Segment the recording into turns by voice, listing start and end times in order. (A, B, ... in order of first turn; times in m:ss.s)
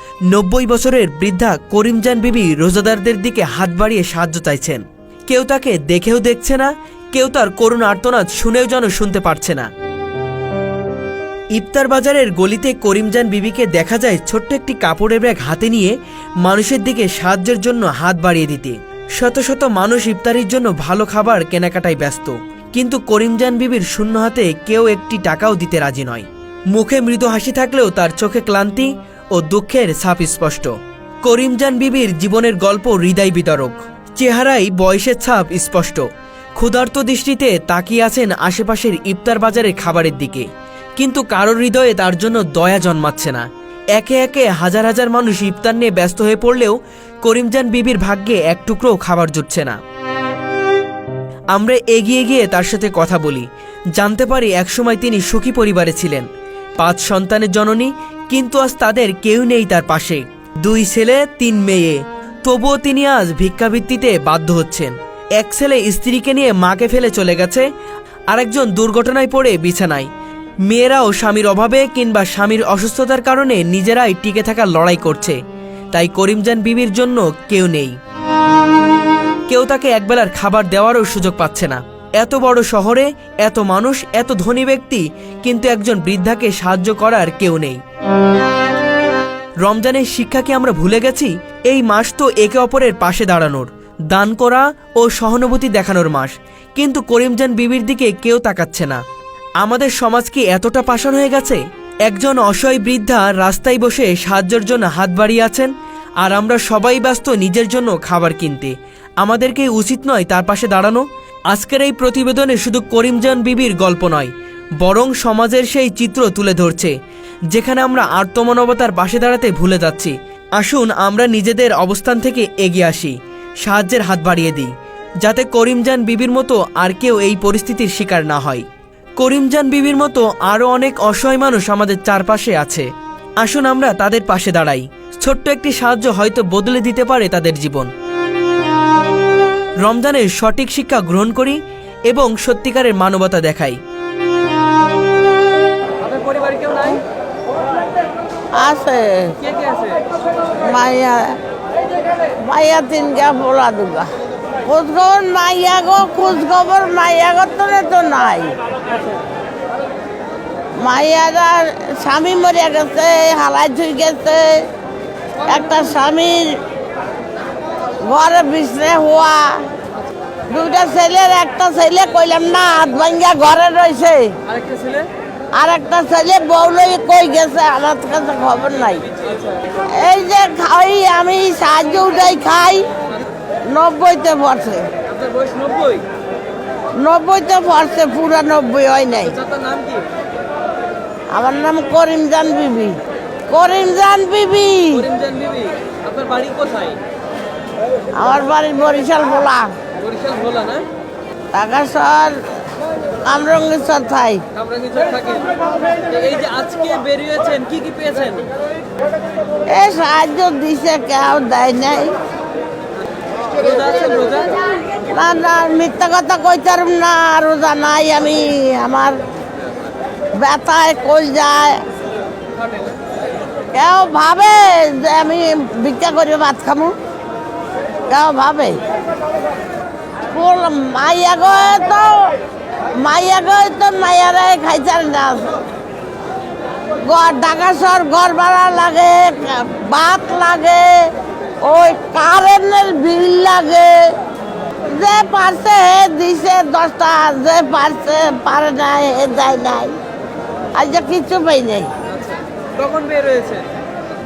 0:00.3-0:09.7 A
0:11.5-0:30.7 A
0:31.2-0:49.8 A
0:51.5-0:56.3 A
0:56.8-1:07.7 A
1:08.3-1:10.1 A
1:10.7-1:15.4 A
1:15.9-1:18.0 A
1:19.5-1:27.8 A
1:29.6-1:39.0 A
1:39.6-1:56.9 A
1:57.5-2:08.6 A
2:09.2-2:12.9 A
2:13.4-2:17.9 A
2:19.8-2:23.8 A
2:26.4-2:26.7 B
2:28.5-2:29.6 C
2:30.6-2:31.4 C
2:32.3-2:34.1 C
2:34.6-2:38.6 C
2:40.8-2:44.7 C
2:45.4-2:46.6 C
2:48.0-2:49.7 C
2:50.5-2:54.5 C
2:55.5-2:59.1 C
2:59.6-3:02.9 C
3:03.6-3:05.1 C
3:05.3-3:06.0 B
3:06.9-3:09.5 C
3:11.3-3:15.2 C
3:16.1-3:16.9 B
3:18.1-3:19.7 C
3:20.2-3:20.7 B
3:21.5-3:22.6 C
3:23.2-3:24.6 C
3:24.8-3:25.5 B
3:26.1-3:28.4 B
3:29.7-3:32.2 C
3:33.7-3:34.4 B
3:34.9-3:39.2 C
3:40.3-3:41.8 C
3:43.7-3:47.0 C
3:48.1-3:48.8 C
3:50.3-3:52.4 C
3:52.9-3:55.6 C
3:57.0-4:04.2 C
4:04.9-4:09.9 C
4:10.7-4:12.0 C
4:12.9-4:13.6 B